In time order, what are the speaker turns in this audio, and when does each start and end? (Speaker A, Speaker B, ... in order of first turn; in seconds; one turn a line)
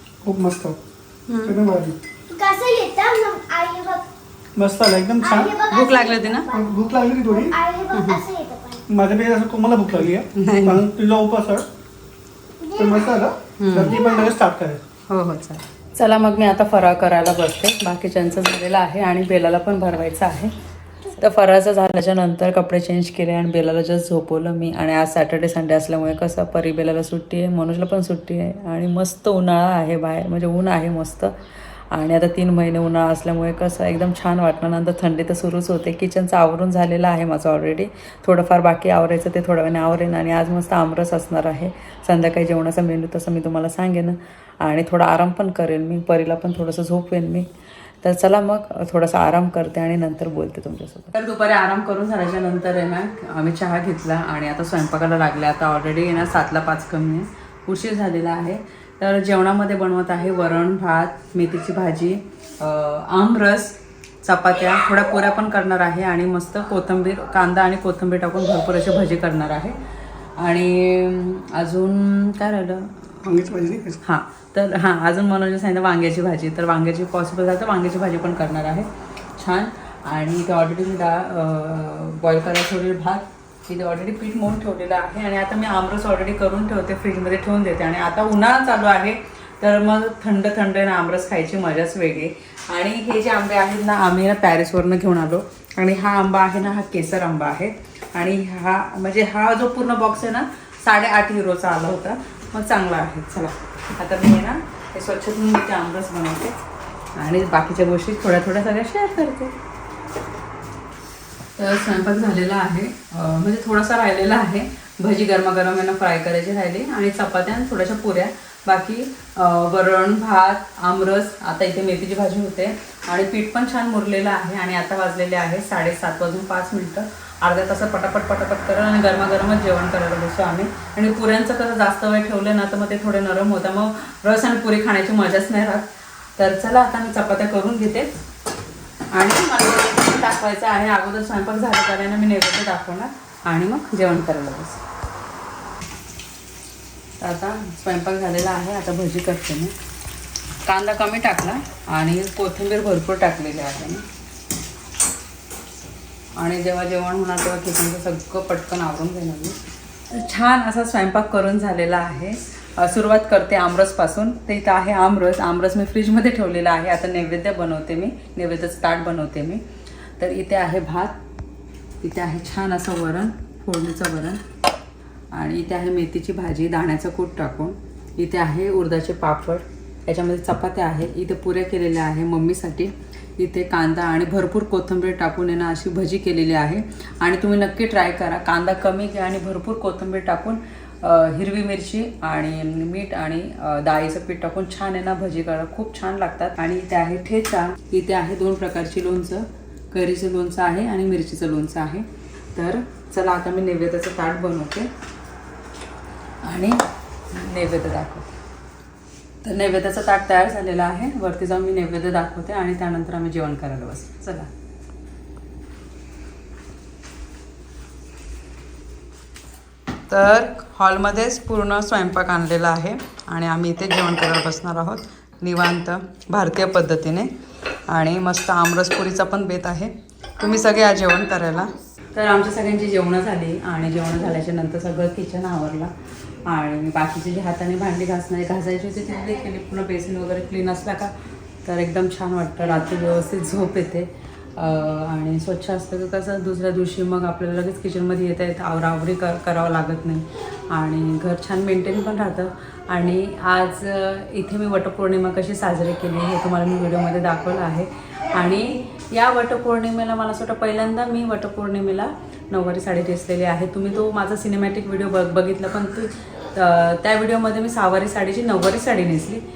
Speaker A: 0.2-0.8
Speaker B: 1.3-1.6
Speaker A: 1.4-2.0
Speaker C: 2.3-4.0
Speaker A: 4.5-5.6
Speaker C: 5.2-6.7
Speaker B: 5.7-6.5
Speaker A: 6.5-7.6
Speaker C: 7.3-8.8
Speaker B: 7.9-8.2
Speaker A: 8.9-11.7
Speaker B: 10.3-10.9
Speaker C: 12.7-13.0
Speaker A: 12.8-14.8
Speaker B: 13.6-14.0
Speaker B: 15.1-20.5
Speaker B: 21.1-31.3
Speaker B: 31.9-47.5
Speaker B: 48.0-69.8
Speaker B: 70.4-73.2
Speaker A: 73.2-74.0
Speaker B: 74.0-106.6
Speaker B: 107.2-109.5
Speaker B: 111.6-138.1
Speaker B: 139.1-144.8
Speaker B: 147.2-149.7
Speaker B: 150.7-154.0
Speaker B: 156.3-169.6
Speaker B: 170.2-171.2
Speaker B: 172.0-174.4
Speaker B: 175.3-204.9
Speaker B: 206.4-208.3
Speaker B: 209.4-214.5
Speaker B: 220.1-227.3
Speaker B: 227.9-235.9
Speaker B: 236.4-241.1
Speaker B: 241.6-269.4